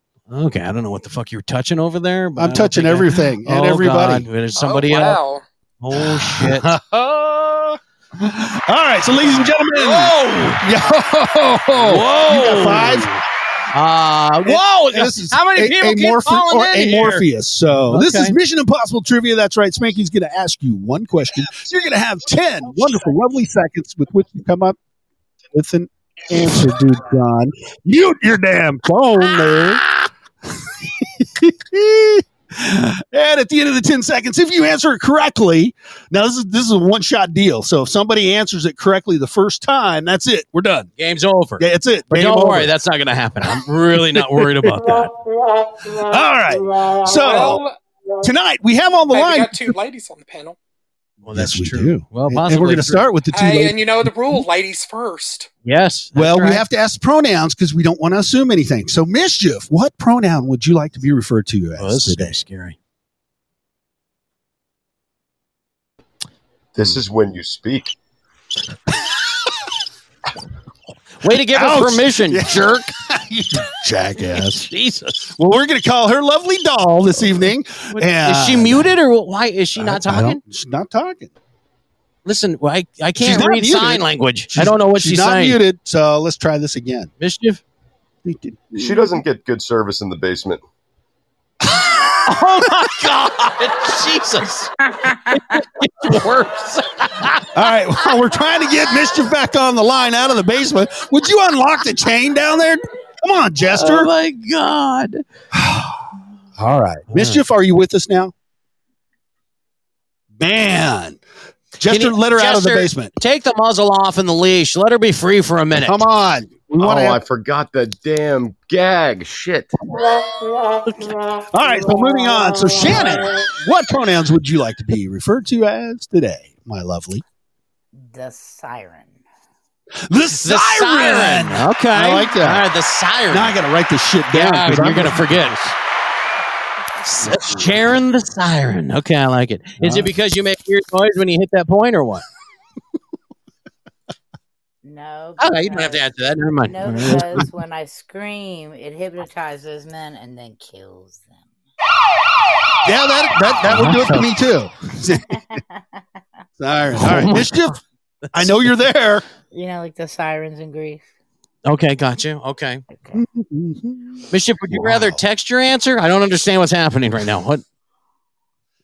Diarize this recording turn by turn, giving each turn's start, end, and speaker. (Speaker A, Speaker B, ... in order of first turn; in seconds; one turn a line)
Speaker A: 0.3-5.2
Speaker B: 2.4-4.3
Speaker C: 4.5-5.4
Speaker A: 5.8-6.7
Speaker B: 6.0-13.1
Speaker A: 9.3-10.6
Speaker A: 11.8-13.2
Speaker A: 13.7-17.2
Speaker B: 14.4-24.8
Speaker A: 17.9-18.3
Speaker B: 25.5-29.8
Speaker B: 30.5-40.9
Speaker A: 41.0-45.1
Speaker B: 41.6-42.7
Speaker B: 44.1-44.8
Speaker B: 45.8-47.6
Speaker C: 47.2-47.7
Speaker B: 48.2-49.8
Speaker C: 49.1-50.5
Speaker A: 51.2-53.1
Speaker B: 51.3-54.5
Speaker C: 53.3-55.5
Speaker A: 55.6-56.6
Speaker B: 56.1-62.4
Speaker A: 61.8-62.8
Speaker D: 66.7-67.9
Speaker A: 71.2-72.9
Speaker B: 71.5-74.7
Speaker A: 74.6-75.3
Speaker B: 75.4-78.9
Speaker A: 77.9-80.4
Speaker B: 79.8-81.3
Speaker A: 82.2-85.6
Speaker B: 83.2-87.1
Speaker A: 87.2-87.6
Speaker B: 88.2-89.2
Speaker D: 88.7-90.6
Speaker B: 91.6-92.2
Speaker A: 92.2-94.7
Speaker A: 95.3-97.5
Speaker B: 97.5-104.1
Speaker A: 103.7-105.2
Speaker B: 105.5-106.0
Speaker B: 106.6-108.3
Speaker A: 107.1-107.4
Speaker B: 110.4-111.2
Speaker B: 111.8-113.1
Speaker A: 111.9-116.0
Speaker B: 115.7-117.2
Speaker D: 116.8-119.7
Speaker A: 120.8-121.1
Speaker B: 121.5-127.2
Speaker E: 127.9-129.1
Speaker B: 130.1-132.6
Speaker A: 130.4-133.6
Speaker B: 133.3-135.7
Speaker A: 134.3-135.7
Speaker A: 137.0-142.2
Speaker B: 137.2-137.8
Speaker B: 139.8-140.1
Speaker E: 144.8-146.1
Speaker A: 145.4-147.4
Speaker E: 146.7-151.3
Speaker B: 147.0-147.4
Speaker B: 152.8-155.4
Speaker A: 153.7-154.3
Speaker B: 156.6-157.8
Speaker A: 157.0-157.8
Speaker B: 158.3-159.2
Speaker A: 158.4-158.7
Speaker E: 159.5-161.0
Speaker A: 161.6-162.8
Speaker E: 162.9-163.2
Speaker B: 163.1-165.2
Speaker A: 164.3-167.6